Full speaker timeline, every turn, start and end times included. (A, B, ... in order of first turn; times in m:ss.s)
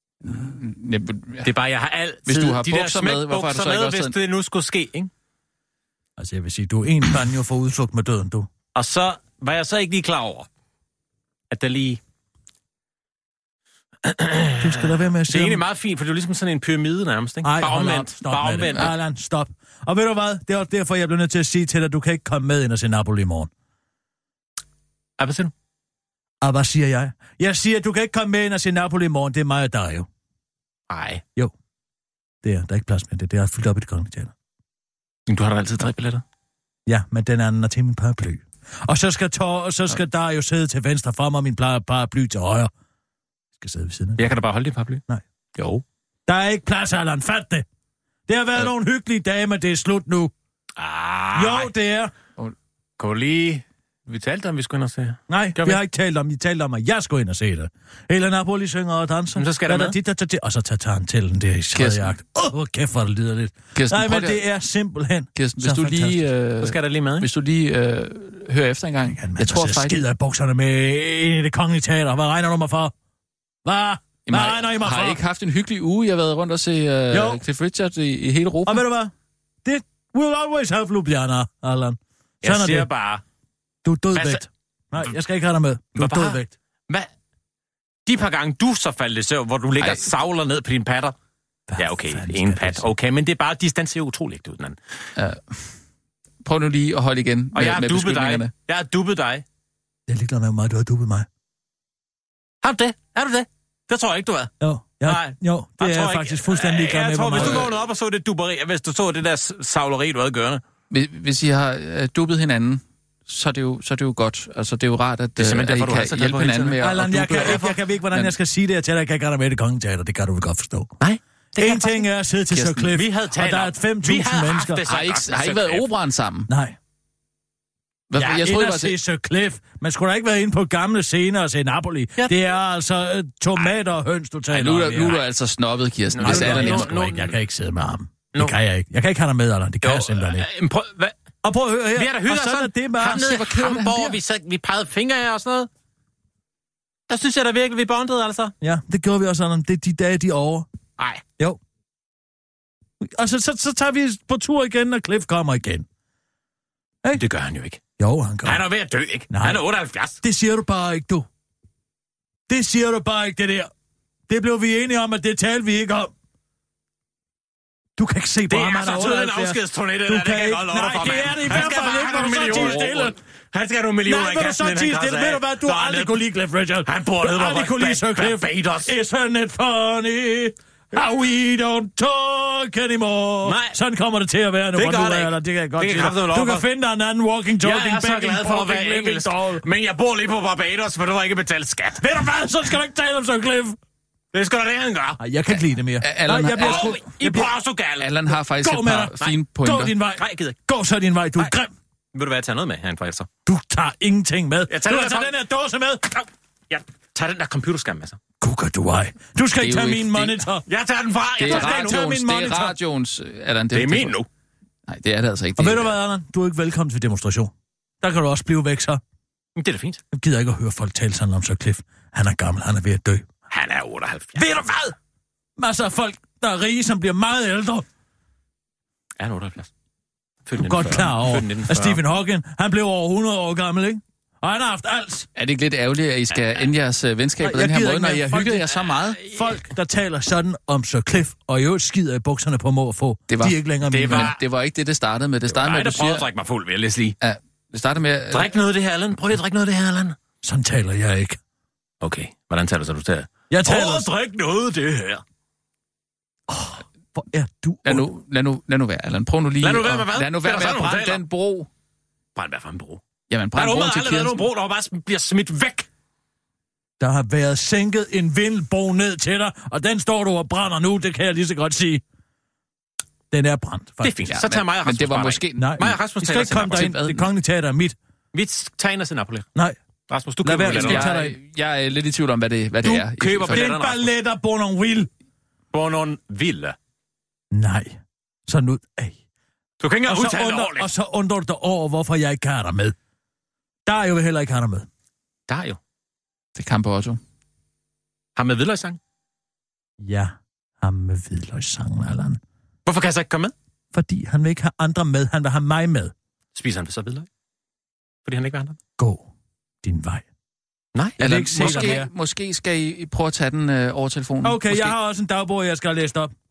0:00.2-0:01.5 A
0:01.4-0:05.1 B
0:02.2-0:04.1 A
0:06.2-0:08.5 C
0:08.7-0:10.5 B
0:11.5-0:12.0 B
0:14.0-0:18.9 B
0:14.6-0:15.6 C
0:17.4-0:23.5 C
0:25.2-0:25.5 B
0:26.4-0:30.1 C
0:30.9-0:31.2 B
0:32.4-0:34.3 C
0:35.3-0:36.2 B
0:36.9-0:42.7 C
0:43.6-0:44.2 C
0:44.2-0:45.0 B
0:45.6-0:45.8 B
0:46.3-0:47.6 C
0:48.3-0:50.3 C
0:50.8-0:51.7 B
0:51.3-0:52.1 C
0:52.4-0:55.8 B
0:55.3-1:06.3 C
0:59.4-0:59.9 B
1:01.7-1:02.1 A
1:03.7-1:04.4 A
1:05.4-1:10.0 A
1:06.6-1:07.3 B
1:09.1-1:12.9 C
1:13.6-1:15.2 C
1:14.3-1:18.8 A
1:17.1-1:17.4 C
1:18.6-1:19.1 C
1:19.6-1:22.9 C
1:22.4-1:23.2 B
1:23.8-1:26.5 C
1:24.1-1:24.4 B
1:26.0-1:27.1 B
1:28.1-1:31.1 B
1:29.8-1:30.0 A
1:31.7-1:32.9 C
1:31.8-1:34.8 B
1:35.2-1:35.7 A
1:36.4-1:38.5 A
1:37.5-1:39.4 B
1:40.1-1:41.3 C
1:42.6-1:44.5 B
1:44.6-1:47.7 C
1:45.0-1:50.6 B
1:47.3-1:47.6 A
1:50.9-1:58.3 A
1:55.4-1:57.8 B
1:56.8-2:00.9 C
2:01.0-2:02.0 B
2:01.6-2:04.8 C
2:02.5-2:02.9 A
2:02.9-2:05.8 B
2:04.8-2:06.5 A
2:06.5-2:06.8 C
2:08.1-2:09.0 A
2:08.1-2:15.2 C
2:14.5-2:16.9 A
2:16.1-2:17.3 B
2:16.2-2:20.5 C
2:19.8-2:21.1 B
2:21.4-2:23.4 C
2:21.9-2:25.7 B
2:23.0-2:24.2 A
2:27.1-2:28.5 B
2:28.6-2:30.7 C
2:33.0-2:35.8 C
2:37.1-2:37.8 B
2:38.0-2:38.6 C
2:38.4-2:40.2 B
2:39.3-2:39.6 C
2:40.2-2:41.2 C
2:42.5-2:43.7 C
2:44.3-2:46.1 C
2:48.0-2:53.2 C
2:48.5-2:56.3 B
2:54.0-3:09.6 C
2:56.8-2:58.9 B
3:03.4-3:03.8 B
3:04.7-3:06.7 B
3:07.6-3:12.2 B
3:12.0-3:13.8 C
3:14.3-3:15.2 B
3:15.2-3:17.5 C
3:16.0-3:17.0 A
3:16.6-3:18.1 B
3:18.0-3:19.9 A
3:18.6-3:21.7 C
3:20.2-3:20.5 B
3:22.1-3:23.3 B
3:23.5-3:26.2 C
3:24.7-3:25.3 B
3:26.2-3:28.2 B
3:28.4-3:30.6 C
3:29.6-3:30.4 A
3:30.7-3:32.1 B
3:31.4-3:34.2 A
3:31.4-3:32.7 C
3:33.7-3:34.3 B
3:34.8-3:35.9 A
3:35.6-3:39.0 C
3:39.6-3:40.0 B
3:40.1-3:43.2 C
3:43.5-3:44.5 B
3:44.4-3:44.9 C
3:45.6-3:47.8 C
3:49.2-3:49.7 B
3:50.4-3:52.0 B
3:50.6-3:55.3 C
3:55.3-3:59.2 A
3:57.4-3:58.7 C
3:59.2-4:04.3 C
4:03.3-4:06.3 A
4:03.9-4:04.4 B
4:05.5-4:07.2 B
4:07.2-4:08.5 A
4:08.3-4:10.2 B
4:10.4-4:11.4 C
4:12.0-4:15.2 B
4:13.5-4:14.1 C
4:16.5-4:18.1 C
4:17.8-4:21.7 A
4:19.6-4:21.2 B
4:22.4-4:23.0 B
4:23.3-4:24.4 A
4:23.5-4:25.9 B
4:27.0-4:32.0 C
4:33.3-4:34.4 C
4:34.0-4:36.9 B
4:34.3-4:35.8 A
4:35.6-4:38.0 C
4:36.6-4:37.3 A
4:38.3-4:39.4 B
4:40.1-4:41.2 B
4:40.4-4:41.4 C
4:40.6-4:43.7 A
4:42.8-4:44.1 B
4:43.5-4:45.1 C
4:45.7-4:46.8 B
4:47.5-4:49.2 C
4:49.8-4:50.9 B
4:50.0-4:52.9 C
4:53.9-4:54.9 C
4:55.5-4:55.8 B
4:56.6-4:57.2 A
4:58.4-4:59.0 B
5:00.0-5:02.4 C
5:02.8-5:03.5 B
5:03.9-5:06.1 C
5:06.5-5:07.3 B
5:08.2-5:08.8 B
5:09.0-5:09.3 C
5:09.8-5:10.2 C
5:10.9-5:12.0 B
5:11.2-5:12.1 C
5:11.2-5:14.9 A
5:14.4-5:16.3 C